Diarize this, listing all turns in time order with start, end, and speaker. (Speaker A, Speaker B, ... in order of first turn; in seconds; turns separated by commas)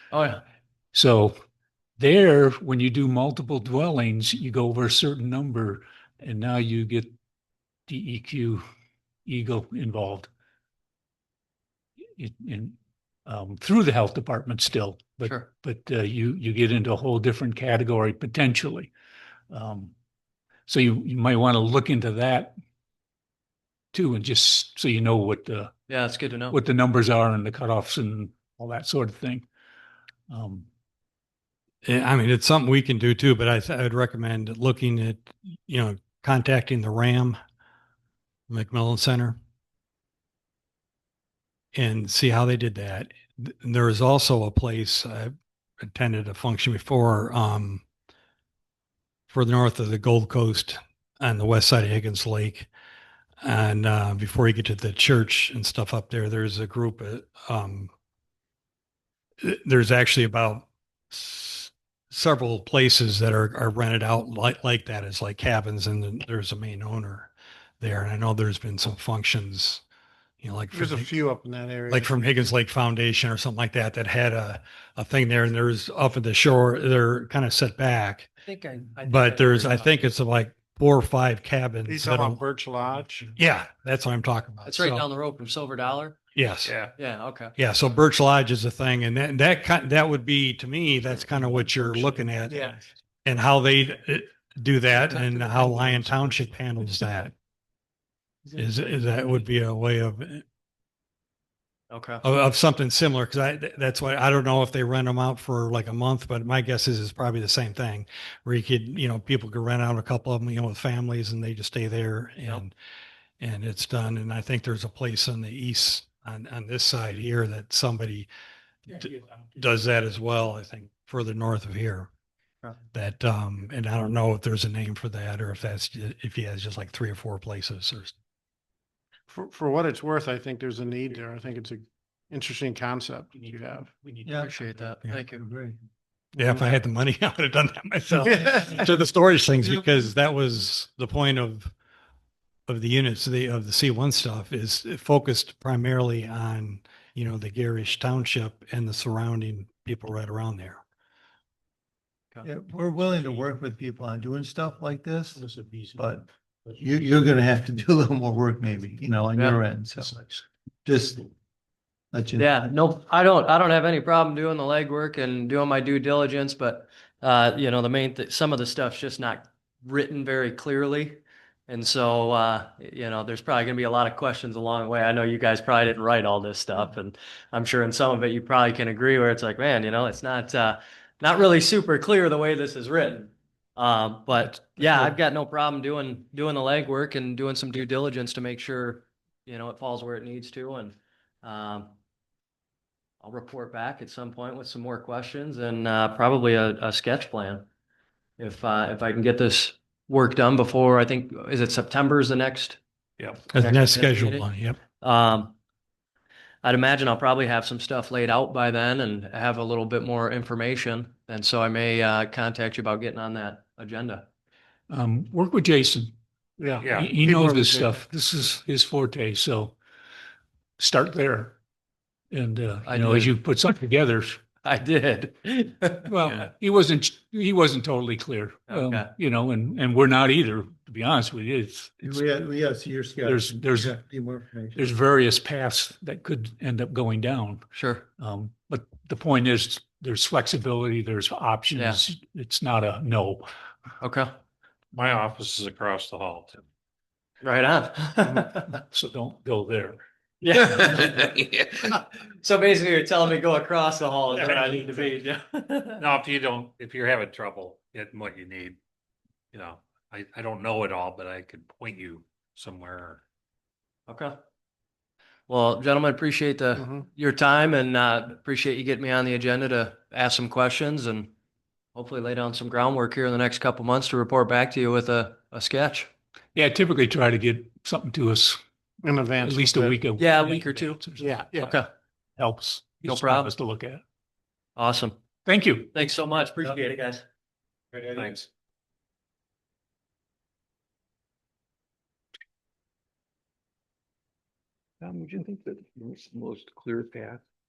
Speaker A: 0.1-0.4, Speaker B: 0.9-1.4, Speaker B: 2.0-7.1, Speaker B: 7.9-8.6, Speaker B: 9.2-10.3, Speaker B: 12.2-18.9, Speaker B: 19.5-19.9, Speaker B: 20.7-22.5, Speaker B: 23.9-25.7, Speaker A: 25.9-26.6, Speaker B: 26.5-29.4, Speaker B: 30.3-30.7, Speaker C: 31.8-37.4, Speaker C: 38.5-39.4, Speaker C: 41.7-47.8, Speaker C: 49.3-52.7, Speaker C: 53.4-57.9, Speaker C: 59.4-69.8, Speaker C: 70.4-71.1, Speaker D: 70.7-72.2, Speaker C: 71.9-78.3, Speaker A: 78.4-80.0, Speaker C: 79.0-82.4, Speaker D: 81.8-83.3, Speaker C: 83.3-85.0, Speaker A: 84.6-86.2, Speaker C: 86.3-86.8, Speaker E: 86.6-86.9, Speaker A: 87.0-87.5, Speaker C: 87.6-92.6, Speaker C: 93.2-97.3, Speaker C: 98.5-100.4, Speaker A: 101.9-102.2, Speaker C: 102.2-112.7, Speaker C: 113.4-118.3, Speaker C: 118.9-122.1, Speaker C: 122.9-128.1, Speaker D: 129.3-133.9, Speaker F: 134.2-134.6, Speaker A: 134.3-135.4, Speaker F: 135.3-135.8, Speaker C: 136.3-141.7, Speaker D: 138.2-138.7, Speaker C: 142.7-150.8, Speaker F: 152.4-160.2, Speaker F: 160.8-161.3, Speaker F: 162.1-162.7, Speaker A: 162.4-191.9, Speaker A: 193.2-197.6, Speaker A: 198.4-202.8, Speaker C: 203.5-204.8, Speaker A: 203.5-204.4, Speaker A: 205.0-205.5, Speaker A: 206.6-214.3, Speaker B: 214.9-216.1, Speaker D: 216.6-218.0, Speaker E: 216.8-217.1, Speaker B: 216.8-219.8, Speaker B: 220.8-221.6, Speaker B: 222.3-224.4, Speaker A: 222.8-223.4, Speaker A: 224.6-226.3, Speaker B: 226.1-232.2, Speaker A: 228.7-229.1, Speaker F: 232.0-234.8, Speaker B: 233.2-234.0, Speaker B: 234.7-237.7, Speaker A: 237.7-238.0, Speaker B: 238.2-243.5, Speaker A: 244.0-244.3, Speaker E: 244.9-246.6, Speaker A: 247.4-248.7, Speaker B: 248.7-250.0, Speaker A: 250.4-256.0, Speaker E: 256.0-258.8, Speaker E: 259.5-263.2, Speaker A: 264.1-264.3, Speaker A: 265.5-271.3, Speaker D: 266.8-267.0, Speaker A: 271.9-276.1, Speaker B: 276.5-278.6, Speaker D: 279.0-280.0, Speaker B: 279.4-281.4, Speaker A: 280.2-281.9, Speaker D: 281.2-281.8, Speaker B: 282.4-284.0, Speaker A: 283.0-283.5, Speaker A: 284.8-285.2, Speaker B: 285.4-285.9, Speaker A: 285.9-287.2, Speaker E: 288.1-288.4, Speaker G: 295.0-297.4